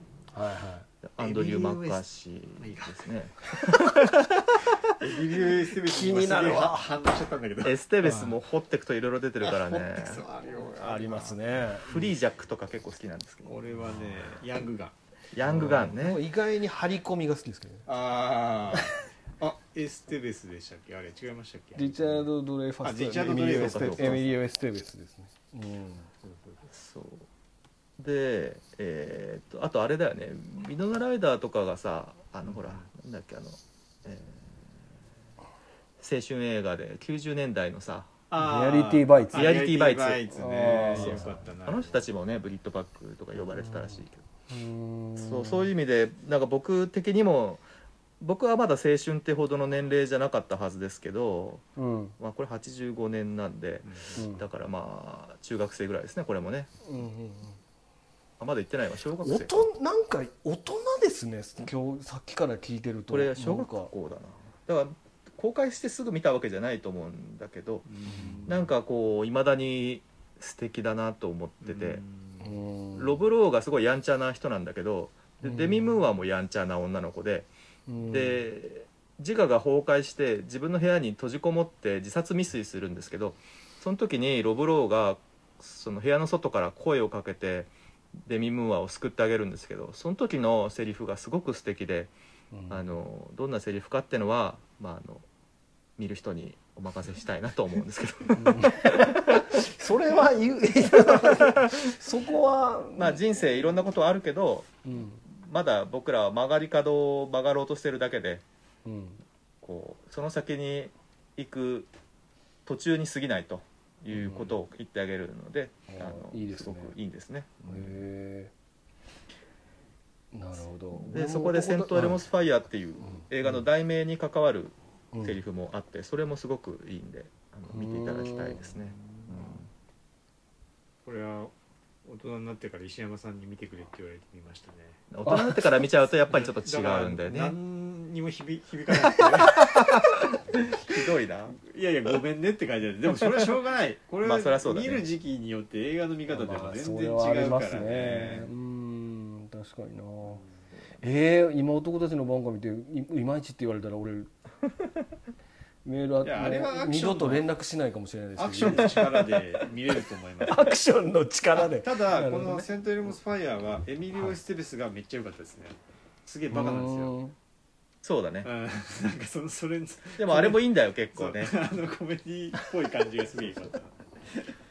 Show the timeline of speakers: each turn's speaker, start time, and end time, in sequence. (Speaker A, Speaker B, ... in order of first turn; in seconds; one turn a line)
Speaker A: 0.3-0.9
Speaker B: 1.0-4.2
Speaker C: 1.2-2.0
Speaker C: 2.6-3.0
Speaker A: 3.5-4.0
Speaker C: 4.9-8.4
Speaker A: 5.8-6.9
Speaker B: 7.6-10.2
Speaker C: 9.4-11.5
Speaker A: 10.8-11.9
Speaker B: 11.8-13.5
Speaker C: 13.4-14.9
Speaker B: 15.3-16.2
Speaker A: 15.4-17.9
Speaker C: 17.9-22.3
Speaker A: 21.8-26.1
Speaker C: 22.8-24.3
Speaker B: 23.4-24.3
Speaker C: 26.2-26.6
Speaker B: 26.7-27.3
Speaker B: 28.0-34.8
Speaker C: 32.5-32.9
Speaker B: 36.0-38.1
Speaker C: 38.3-42.1
Speaker A: 38.4-39.5
Speaker B: 39.3-40.2
Speaker A: 40.3-41.4
Speaker B: 41.0-44.2
Speaker A: 44.5-45.7
Speaker B: 45.2-47.6
Speaker B: 48.2-51.6
Speaker A: 51.8-52.1
Speaker B: 52.2-56.7
Speaker C: 53.8-54.2
Speaker A: 54.1-54.5
Speaker A: 56.8-57.6
Speaker B: 58.4-59.6
Speaker A: 59.2-63.9
Speaker B: 63.1-67.9
Speaker C: 67.9-68.7
Speaker A: 68.1-68.5
Speaker B: 68.5-72.0
Speaker C: 71.6-72.6
Speaker A: 72.4-73.2
Speaker B: 73.0-77.5
Speaker A: 75.4-76.0
Speaker A: 77.9-78.4
Speaker B: 78.1-87.7
Speaker B: 88.2-92.1
Speaker A: 92.5-92.9
Speaker B: 92.7-95.2
Speaker B: 96.0-99.6
Speaker A: 98.3-103.2
Speaker B: 101.0-101.8
Speaker B: 103.0-104.8
Speaker A: 104.8-105.2
Speaker B: 105.3-108.4
Speaker A: 108.8-109.2
Speaker B: 109.6-111.9
Speaker B: 112.7-117.9
Speaker A: 114.1-114.5
Speaker A: 115.9-116.9
Speaker A: 117.6-118.5
Speaker A: 120.3-122.2
Speaker B: 121.0-129.7
Speaker A: 123.0-123.5
Speaker A: 125.1-125.4
Speaker A: 127.7-128.6
Speaker C: 128.9-129.6
Speaker C: 131.0-131.5
Speaker C: 132.0-135.0
Speaker B: 135.1-137.6
Speaker A: 135.2-135.8
Speaker C: 136.3-148.5
Speaker B: 140.7-141.6
Speaker B: 144.2-145.0
Speaker A: 146.3-150.4
Speaker A: 151.0-154.3
Speaker A: 155.8-159.6
Speaker C: 156.2-157.4
Speaker C: 158.4-160.8
Speaker A: 160.4-162.7
Speaker C: 161.6-167.1
Speaker A: 166.5-167.3
Speaker B: 168.0-168.5
Speaker C: 168.4-174.5
Speaker B: 170.2-171.5